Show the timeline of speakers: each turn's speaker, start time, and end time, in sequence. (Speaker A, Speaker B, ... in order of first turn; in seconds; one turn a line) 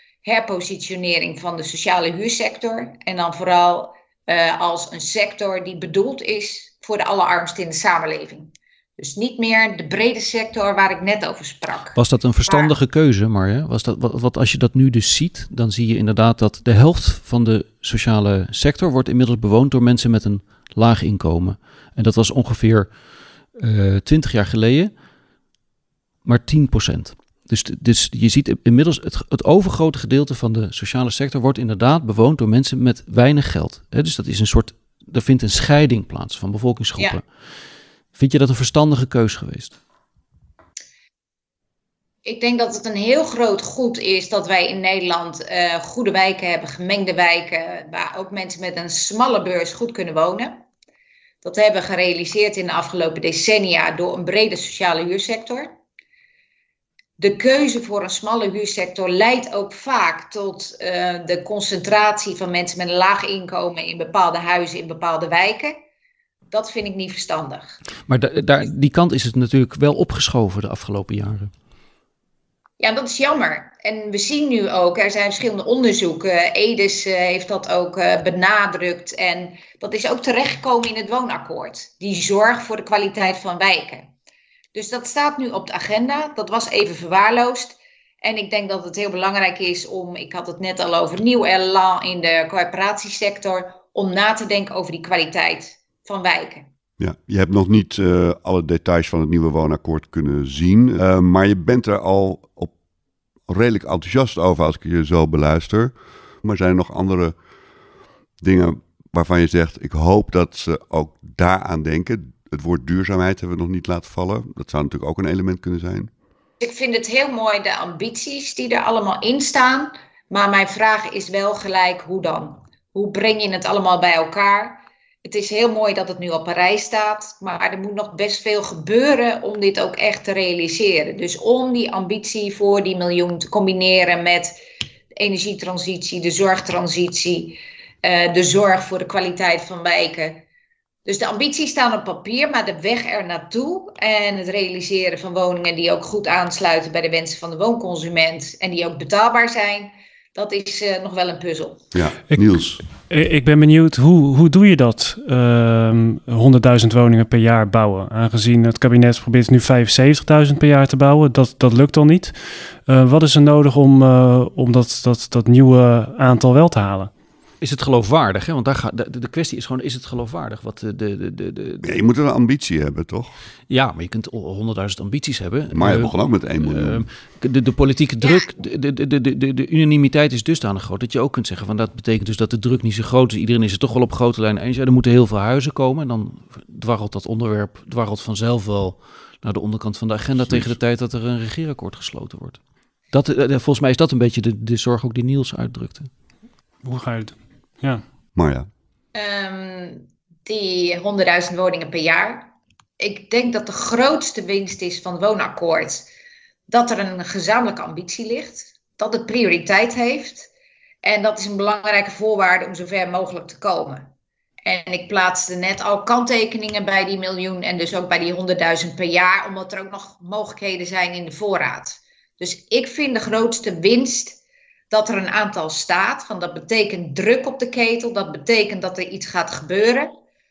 Speaker A: 0.2-12.7
Speaker B: 11.9-22.9
Speaker B: 23.6-24.9
Speaker B: 26.2-37.2
Speaker B: 38.1-39.8
Speaker A: 42.2-50.6
Speaker A: 51.4-55.7
Speaker A: 57.2-65.8
Speaker A: 66.5-67.8
Speaker B: 68.1-71.5
Speaker A: 72.8-84.1
Speaker A: 84.7-96.7
Speaker C: 97.0-102.7
Speaker C: 103.5-107.3
Speaker C: 108.4-116.1
Speaker A: 116.6-134.5
Speaker A: 135.2-140.4
Speaker A: 141.1-151.9
Speaker C: 151.9-152.8
Speaker D: 152.3-167.1
Speaker B: 167.6-172.0
Speaker C: 171.8-173.3
Speaker B: 173.7-192.6
Speaker C: 175.7-177.1
Speaker C: 190.4-190.8
Speaker B: 193.1-196.1
Speaker D: 196.8-198.0
Speaker C: 198.4-198.7
Speaker A: 199.2-206.1
Speaker A: 206.7-210.5
Speaker A: 211.0-214.1
Speaker A: 214.7-224.4
Speaker A: 224.9-230.1